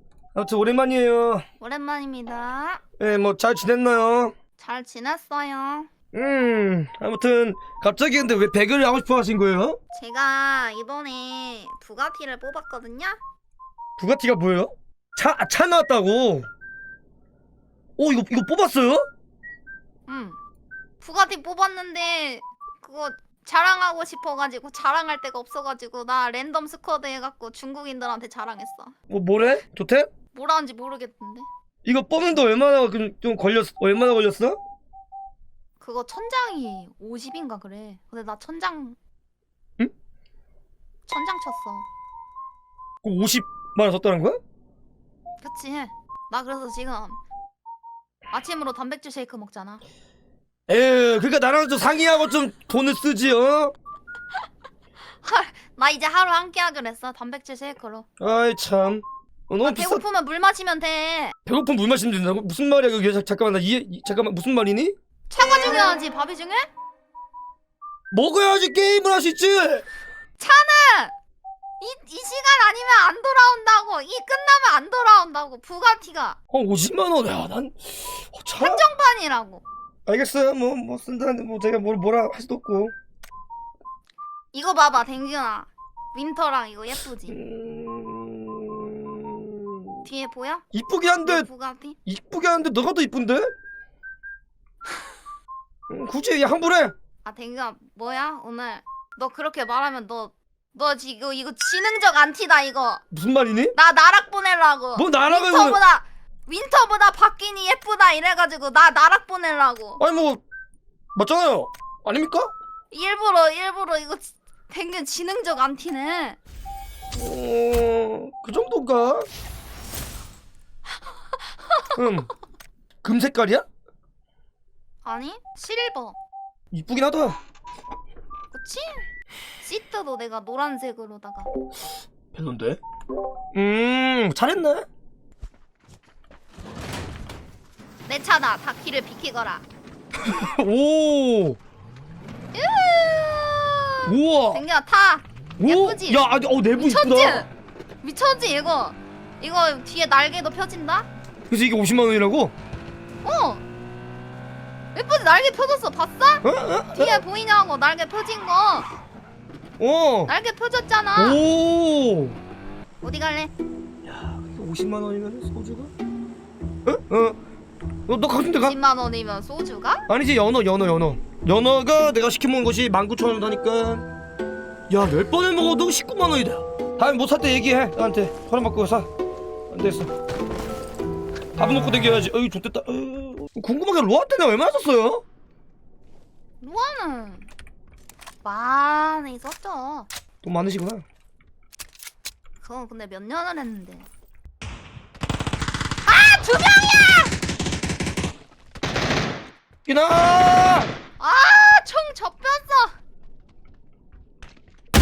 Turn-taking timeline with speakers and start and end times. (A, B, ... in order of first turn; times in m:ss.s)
0:00.3-0:01.4 A
0:01.6-0:02.8 B
0:03.0-0:04.3 A
0:04.6-0:05.9 B
0:06.1-0:09.8 A
0:09.9-0:13.2 B
0:14.0-0:16.5 A
0:18.0-0:19.1 A
0:20.1-0:20.4 B
0:21.0-0:28.9 B
0:29.1-0:30.1 A
0:30.3-0:31.5 B
0:31.8-0:34.6 A
0:35.8-0:39.0 B
0:41.1-0:41.9 B
0:43.0-0:44.4 A
0:45.4-0:47.2 B
0:48.3-0:49.8 B
0:50.7-0:53.7 A
0:55.1-0:58.0 B
0:58.2-1:00.0 A
0:59.6-1:01.3 B
1:01.5-1:05.0 A
1:05.3-1:06.7 B
1:08.1-1:09.9 A
1:10.4-1:11.1 B
1:11.8-1:16.4 B
1:16.5-1:18.8 A
1:18.6-1:19.6 B
1:20.1-1:22.9 A
1:24.5-1:27.4 B
1:27.3-1:30.0 A
1:30.0-1:30.6 B
1:30.7-1:31.5 A
1:31.2-1:32.0 B
1:32.1-1:33.5 A
1:35.9-1:36.9 A
1:37.2-1:43.0 B
1:43.1-1:43.8 A
1:43.7-1:50.0 B
1:45.0-1:45.8 A
1:50.0-1:50.4 A
1:51.2-1:52.5 A
1:52.9-1:56.4 B
1:57.1-1:59.3 A
2:02.0-2:02.3 A
2:03.0-2:03.6 A
2:05.0-2:06.2 B
2:06.7-2:07.4 A
2:08.5-2:09.0 B
2:09.6-2:11.5 B
2:12.3-2:12.8 A
2:13.5-2:14.9 A
2:18.1-2:19.6 B
2:20.2-2:21.6 A
2:22.5-2:27.5 B
2:24.1-2:24.6 A
2:25.6-2:27.5 A
2:28.0-2:31.1 B
2:31.5-2:32.5 A
2:33.2-2:33.6 B
2:35.0-2:38.9 B
2:36.4-2:37.2 A
2:39.8-2:40.3 A
2:40.3-2:41.4 B
2:41.2-2:42.4 A
2:43.0-2:43.5 B
2:44.1-2:45.9 A
2:46.9-2:47.4 A
2:48.1-2:48.8 A
2:48.6-2:50.0 B
2:50.1-2:54.1 A
2:54.9-2:59.1 A
2:59.7-3:00.1 A
3:01.6-3:05.2 A
3:06.6-3:07.5 B
3:08.4-3:10.1 B
3:10.4-3:11.0 A
3:12.6-3:14.1 B
3:16.1-3:17.3 B
3:19.9-3:20.9 A
3:21.2-3:23.0 B